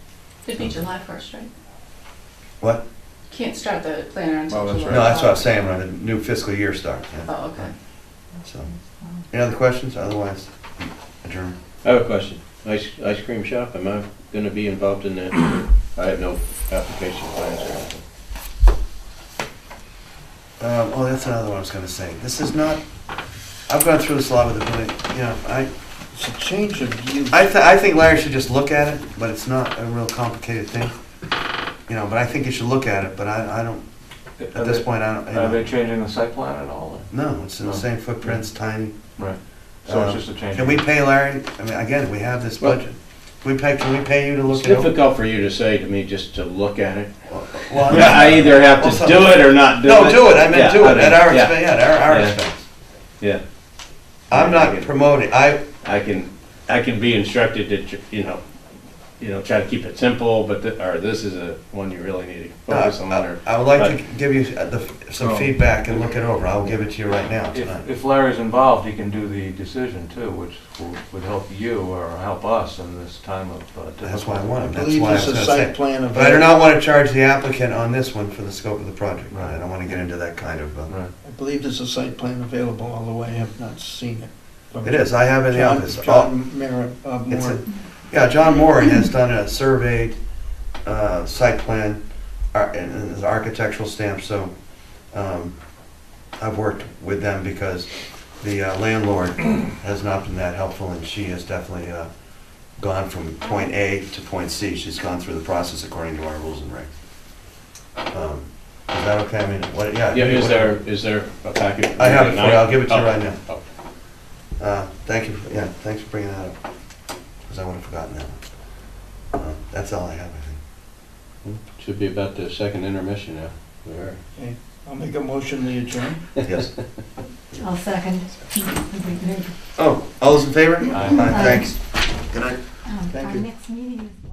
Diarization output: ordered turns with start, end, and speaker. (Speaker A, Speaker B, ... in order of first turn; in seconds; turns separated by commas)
Speaker A: 0.5-1.5, Speaker B: 0.6-0.8, Speaker A: 3.3-5.5, Speaker C: 4.5-5.1, Speaker B: 4.9-7.7, Speaker A: 7.2-7.7, Speaker B: 8.4-8.7, Speaker B: 9.3-11.6, Speaker D: 11.8-18.0, Speaker B: 20.6-22.8, Speaker B: 23.7-25.7, Speaker E: 26.1-27.4, Speaker B: 27.3-30.9, Speaker B: 31.9-33.8, Speaker C: 34.4-37.1, Speaker B: 34.5-35.7, Speaker B: 37.1-39.0, Speaker C: 37.6-38.4, Speaker C: 39.2-40.9, Speaker B: 39.9-44.9, Speaker D: 44.5-52.4, Speaker B: 47.3-52.7, Speaker D: 54.3-54.9, Speaker B: 54.3-55.6, Speaker D: 55.8-58.4, Speaker D: 59.2-64.0, Speaker B: 62.7-67.8, Speaker C: 65.2-66.1, Speaker C: 67.5-74.6, Speaker B: 74.0-80.9, Speaker E: 74.7-76.5, Speaker C: 79.3-79.6, Speaker E: 81.2-87.7, Speaker B: 84.8-86.3, Speaker B: 87.3-90.2, Speaker B: 90.8-92.0, Speaker B: 92.5-94.5, Speaker B: 95.1-95.6, Speaker B: 96.4-102.1, Speaker B: 102.8-106.9, Speaker B: 108.1-110.8, Speaker D: 110.1-113.6, Speaker B: 112.0-113.4, Speaker B: 114.6-116.6, Speaker B: 117.5-118.4, Speaker B: 119.3-120.6, Speaker D: 121.4-124.2, Speaker E: 124.4-126.2, Speaker B: 126.4-126.8, Speaker F: 127.6-129.5, Speaker B: 129.8-132.6, Speaker C: 130.9-131.4, Speaker F: 131.3-131.6, Speaker F: 132.9-134.2, Speaker E: 133.1-133.5